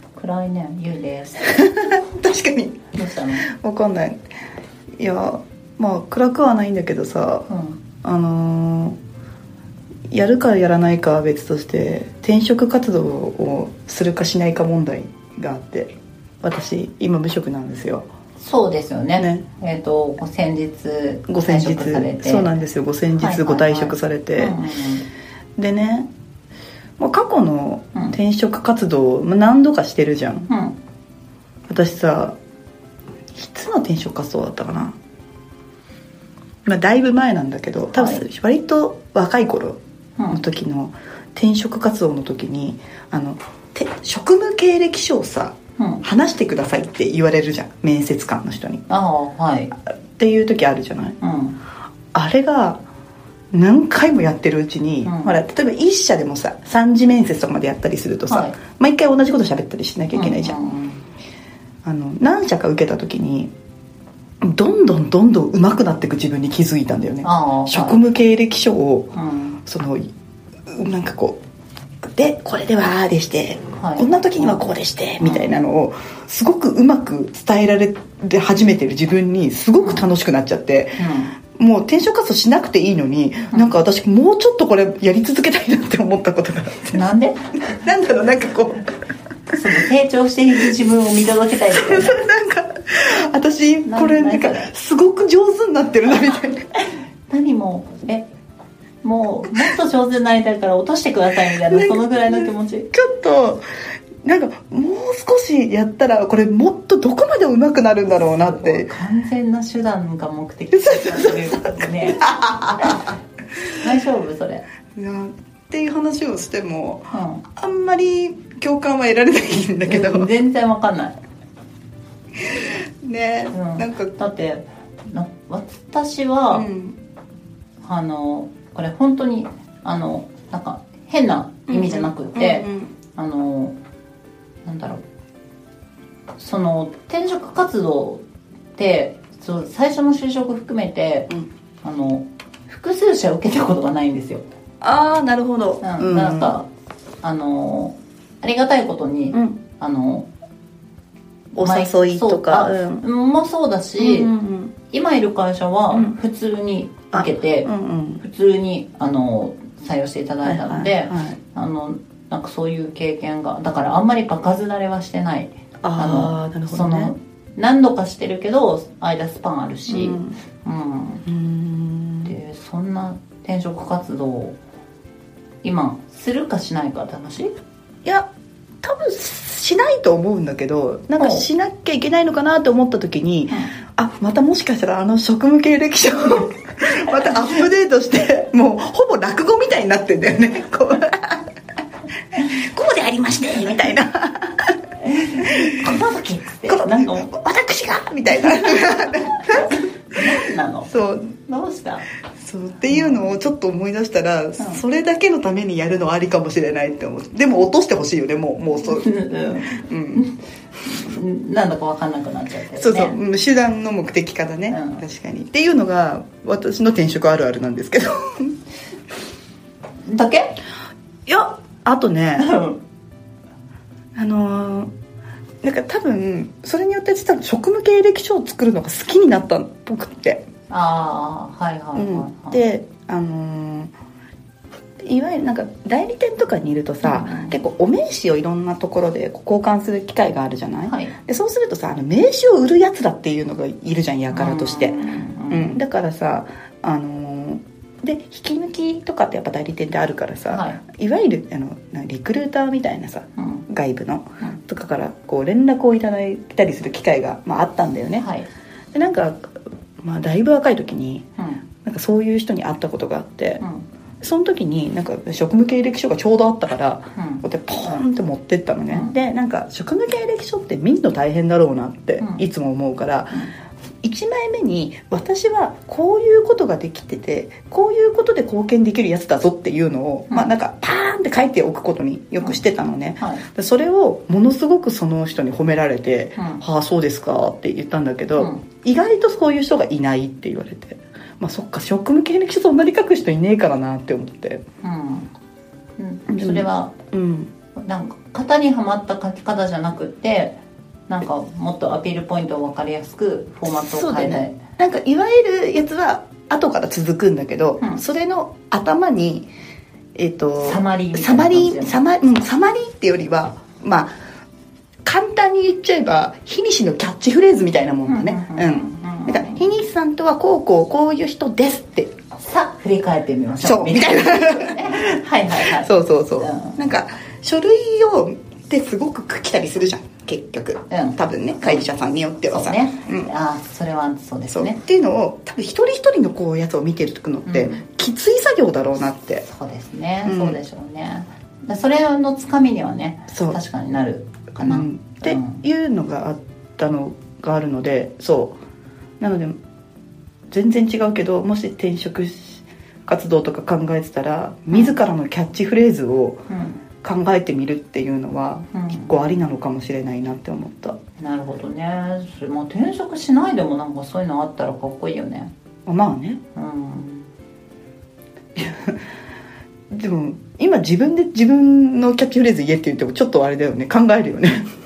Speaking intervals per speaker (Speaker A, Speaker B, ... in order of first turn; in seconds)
Speaker A: 0.2-1.6, 2.9-3.5, 7.5-7.8, 18.4-22.5, 23.1-25.1, 30.5-30.8, 37.9-38.2, 45.8-46.0, 48.9-49.7, 51.2-51.6, 55.0-55.4, 58.3-58.6, 60.1-61.0, 67.2-68.0, 69.2-69.6, 73.8-74.6, 75.2-75.6, 79.8-80.1, 81.0-81.3, 83.5-83.8, 86.9-87.5, 89.5-92.2, 93.8-94.7, 97.3-98.3, 99.0-102.9, 108.3-113.1, 113.7-114.6, 117.1-117.4, 119.8-121.2, 123.5-126.7, 127.8-133.8, 134.7-135.0, 136.4-138.2, 138.8-141.3, 141.8-144.4, 145.8-146.7, 147.2-150.3, 151.6-154.3, 154.9-171.2, 172.2-174.6, 175.6-177.5, 181.2-181.5, 195.0-197.3, 199.5-200.9, 201.5-202.1, 202.9-203.4, 208.8-213.2, 214.7-215.1, 220.1-220.6, 222.4-222.8, 230.7-232.6, 237.0-237.6, 240.8-241.1, 244.3-245.8, 250.5-250.8, 253.4-253.7, 258.2-258.5, 261.4-261.6, 263.6-263.9, 267.2-267.4, 272.2-272.4, 283.2-283.4, 286.4-286.6, 288.4-288.6, 294.8-295.3, 296.0-296.9, 297.8-300.6, 301.1-304.6, 310.6-312.0, 318.1-319.6, 322.4-326.8, 330.9-331.9, 332.5-334.8, 337.5-337.8, 339.5-345.6, 356.5-356.8, 358.7-359.1, 361.2-365.5, 366.6-367.3
Speaker B: 1.6-2.9, 3.5-4.2, 5.0-7.5, 8.0-9.0, 10.1-18.1, 19.2-19.4, 21.3-24.6, 25.6-26.1, 27.0-30.5, 31.7-32.4, 33.4-35.0, 36.6-39.8, 40.3-48.8, 50.1-51.2, 52.1-52.8, 53.5-60.6, 61.8-63.5, 64.4-69.1, 69.7-70.1, 70.7-71.4, 72.0-81.0, 81.5-87.1, 87.8-88.9, 91.7-96.7, 101.6-103.6, 104.2-108.9, 110.7-113.1, 115.0-120.3, 122.5-124.2, 126.5-127.0, 131.7-132.9, 144.8-146.6, 149.3-149.6, 151.5-153.1, 154.0-154.7, 157.1-158.2, 160.4-161.4, 165.8-167.1, 169.9-170.4, 171.3-172.3, 178.8-191.4, 192.4-194.8, 195.4-196.0, 196.7-200.2, 200.9-201.3, 202.4-209.1, 209.7-210.3, 212.8-218.6, 221.3-222.5, 224.2-224.9, 225.6-230.4, 231.9-233.9, 235.0-258.3, 258.9-261.3, 261.8-263.6, 264.2-273.5, 274.0-294.6, 296.3-297.5, 303.7-309.5, 310.1-314.1, 315.1-322.1, 323.6-325.0, 325.6-333.3, 334.5-339.5, 340.2-340.6, 343.3-343.6, 344.6-348.6, 349.2-349.6, 350.5-356.4, 357.0-361.0, 365.9-366.4, 368.6-369.0, 369.9-374.7